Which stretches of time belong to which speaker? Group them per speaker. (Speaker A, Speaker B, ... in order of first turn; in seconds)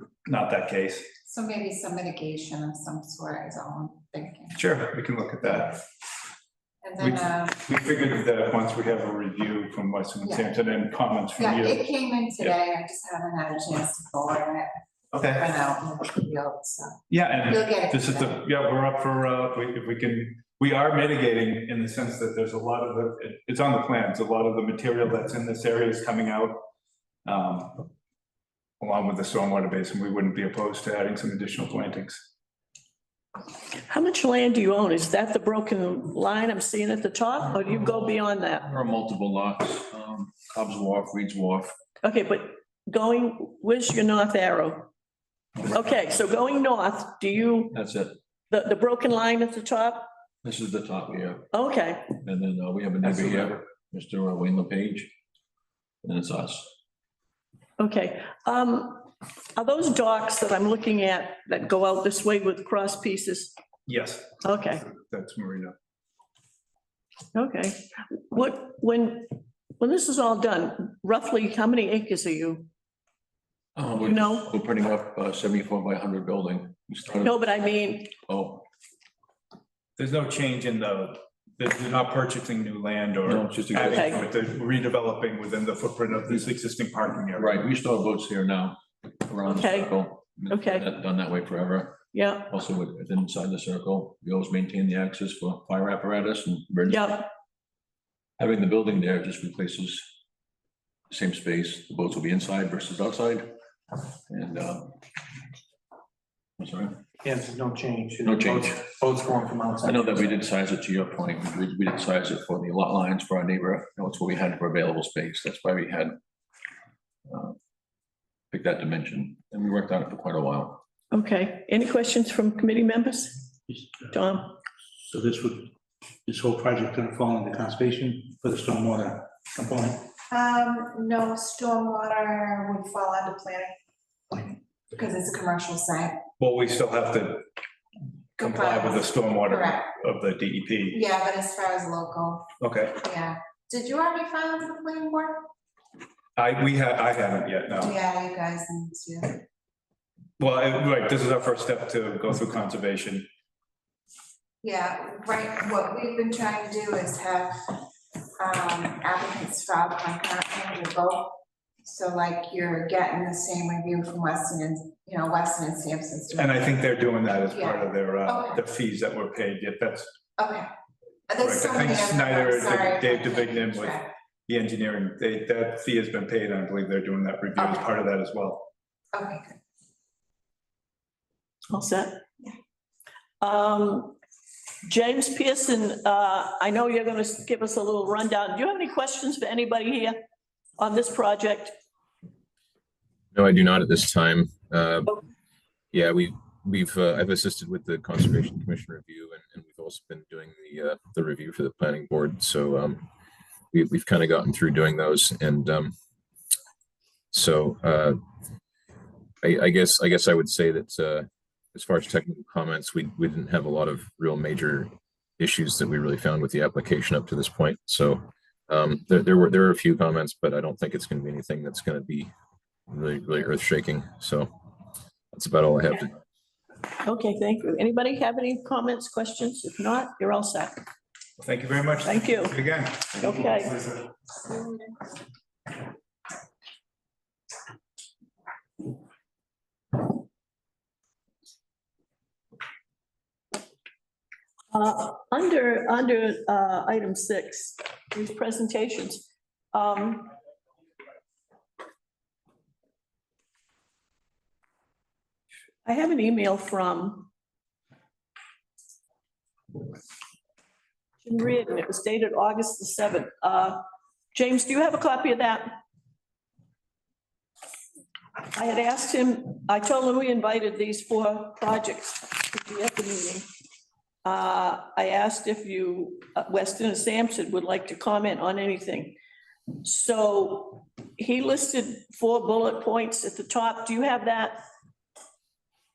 Speaker A: 0.3-1.1, 4.5-5.8, 7.0-11.9, 15.1-15.5, 17.1-26.6, 27.2-27.9, 28.8-32.2, 63.9-65.8, 80.0-87.7, 136.4-137.5, 138.4-141.0, 142.6-143.0, 146.4-147.9, 150.4-153.3, 166.3-170.1, 171.4-178.7, 231.4-234.0
Speaker B: 1.2-4.6, 6.8-7.6, 10.2-10.5, 11.4-18.4, 130.3-133.7, 134.3-136.2, 138.4-139.9, 140.9-142.5, 143.0-145.5, 147.8-149.4, 154.6-157.8, 158.4-166.6, 167.5-168.6, 170.4-170.7, 171.3-174.1, 177.6-177.9, 179.1-179.6
Speaker C: 33.8-38.7, 42.0-44.9, 45.7-47.7, 48.5-50.1, 51.5-52.1, 57.8-63.5, 64.4-64.8, 67.3-72.7, 74.0-74.5, 77.2-78.1, 83.8-84.2, 89.4-90.9, 92.1-92.5, 96.9-97.3, 121.1-123.5, 124.1-124.6, 181.7-182.2, 183.4-184.2, 184.9-190.2, 190.8-191.8, 227.0-230.8, 232.1-233.9, 244.7-250.3, 255.8-257.3, 261.2-263.8, 264.3-265.8, 268.5-273.5, 274.2-279.2, 279.8-284.6
Speaker D: 37.7-38.1, 38.6-41.8, 47.7-48.2, 50.4-51.5, 52.2-55.1, 56.0-56.7, 73.8-77.4, 78.3-78.6, 83.2-84.2, 87.4-97.2, 98.4-100.1, 101.1-103.6, 104.3-105.0, 106.6-107.0, 108.2-109.0, 109.8-116.2, 117.3-117.5, 118.5-120.8
Speaker E: 53.1-53.5, 107.2-110.3
Speaker F: 125.0-125.7, 126.3-130.1
Speaker G: 193.3-195.2, 195.9-203.1, 203.7-205.9, 207.3-208.2, 209.4-222.3, 222.9-224.5, 225.3-226.2